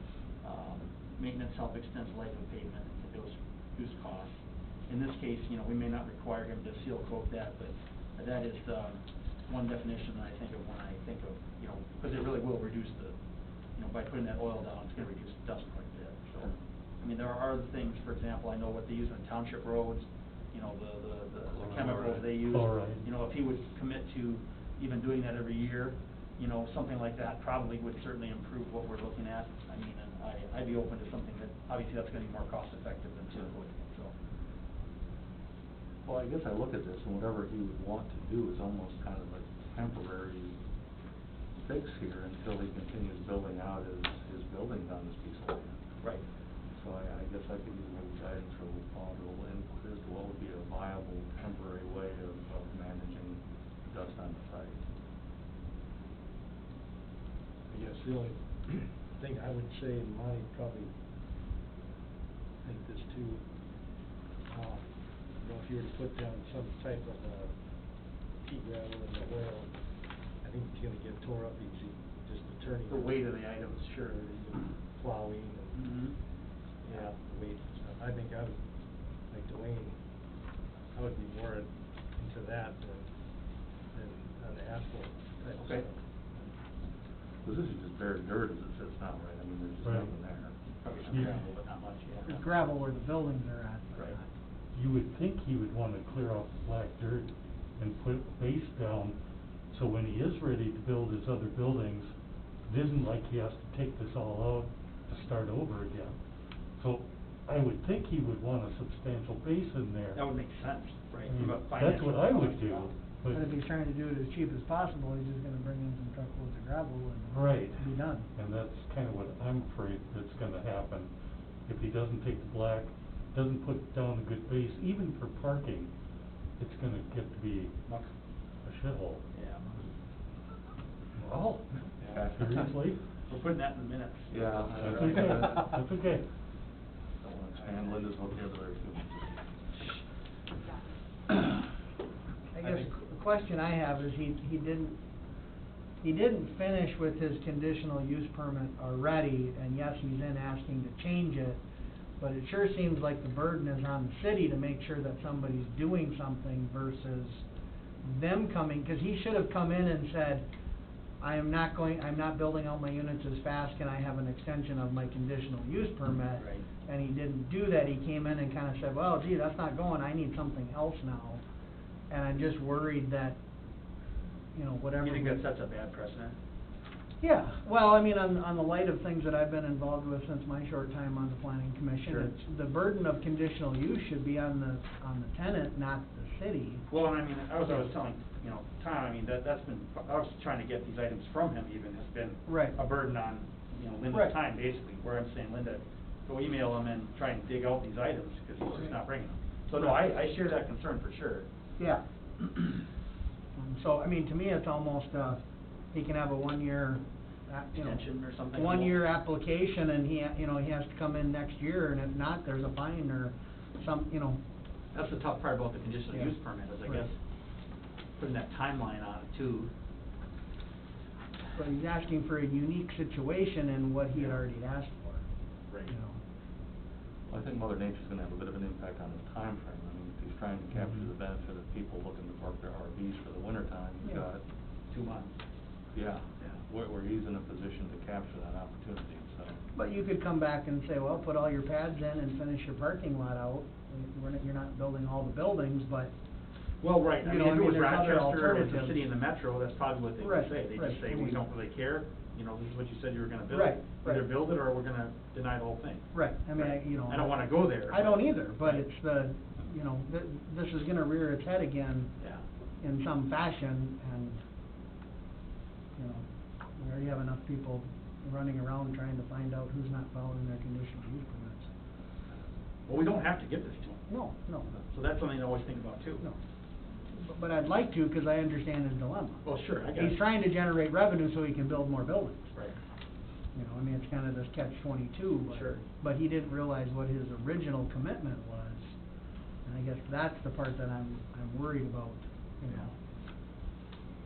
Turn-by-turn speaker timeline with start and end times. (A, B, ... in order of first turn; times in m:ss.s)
0:00.4-0:13.2 A
0:13.7-0:34.1 A
0:21.8-0:23.0 B
0:36.0-0:40.6 C
0:41.6-0:45.8 C
0:46.7-0:54.8 C
0:57.7-1:00.9 D
1:02.6-1:03.4 D
1:04.5-1:07.6 D
1:08.4-1:09.8 D
1:10.4-1:13.3 D
1:12.9-1:14.8 A
1:14.8-1:16.0 D
1:15.7-1:16.2 A
1:16.8-1:18.6 D
1:16.8-1:17.1 A
1:19.3-1:20.0 D
1:20.9-1:23.1 D
1:23.9-1:26.5 D
1:25.6-1:25.8 A
1:27.4-1:31.4 C
1:29.8-1:30.1 B
1:30.8-1:32.7 A
1:31.1-1:31.4 B
1:32.2-1:34.3 E
1:34.7-1:39.2 B
1:39.7-1:42.1 B
1:42.6-1:46.2 B
1:46.8-1:50.2 B
1:50.1-1:52.9 A
1:51.3-1:53.5 B
1:53.3-1:58.3 E
1:57.3-2:01.1 B
2:01.7-2:05.9 B
2:06.6-2:07.7 B
2:08.6-2:09.2 B
2:09.3-2:09.7 A
2:11.2-2:13.0 B
2:12.0-2:12.2 A
2:12.0-2:12.7 C
2:13.3-2:15.4 A
2:14.3-2:15.8 C
2:14.8-2:16.3 B
2:17.2-2:19.6 C
2:22.5-2:25.0 E
2:26.0-2:31.6 E
2:32.2-2:37.4 E
2:38.0-2:40.5 E
2:41.2-2:51.4 E
2:46.3-2:46.6 A
2:52.1-2:53.4 E
2:54.5-2:55.4 E
2:55.0-2:56.4 A
2:57.2-3:06.8 E
3:02.0-3:02.3 A
3:06.9-3:21.4 A
3:12.4-3:12.8 E
3:14.1-3:14.3 E
3:21.8-3:22.0 E
3:23.6-3:34.4 E
3:27.8-3:29.0 A
3:34.9-3:37.2 A
3:36.1-3:37.1 E
3:38.2-3:39.7 A
3:41.5-3:45.2 E
3:44.1-3:44.4 A
3:45.9-3:46.2 E
3:47.3-3:54.4 C
3:54.9-3:55.3 A
3:55.9-3:59.6 C
3:59.7-4:06.1 E
4:06.8-4:18.8 A
4:07.2-4:09.0 E
4:10.2-4:11.4 E
4:13.5-4:14.3 E
4:16.1-4:22.1 E
4:22.2-4:22.4 A
4:22.8-4:24.4 E
4:26.0-4:26.2 E
4:26.8-4:31.7 E
4:32.8-4:34.0 A
4:34.1-4:34.7 E
4:34.7-4:36.2 A
4:37.1-4:42.5 E
4:39.4-4:40.2 A
4:43.5-4:48.9 E
4:45.5-4:45.8 A
4:49.6-4:52.9 E
4:52.7-4:52.9 A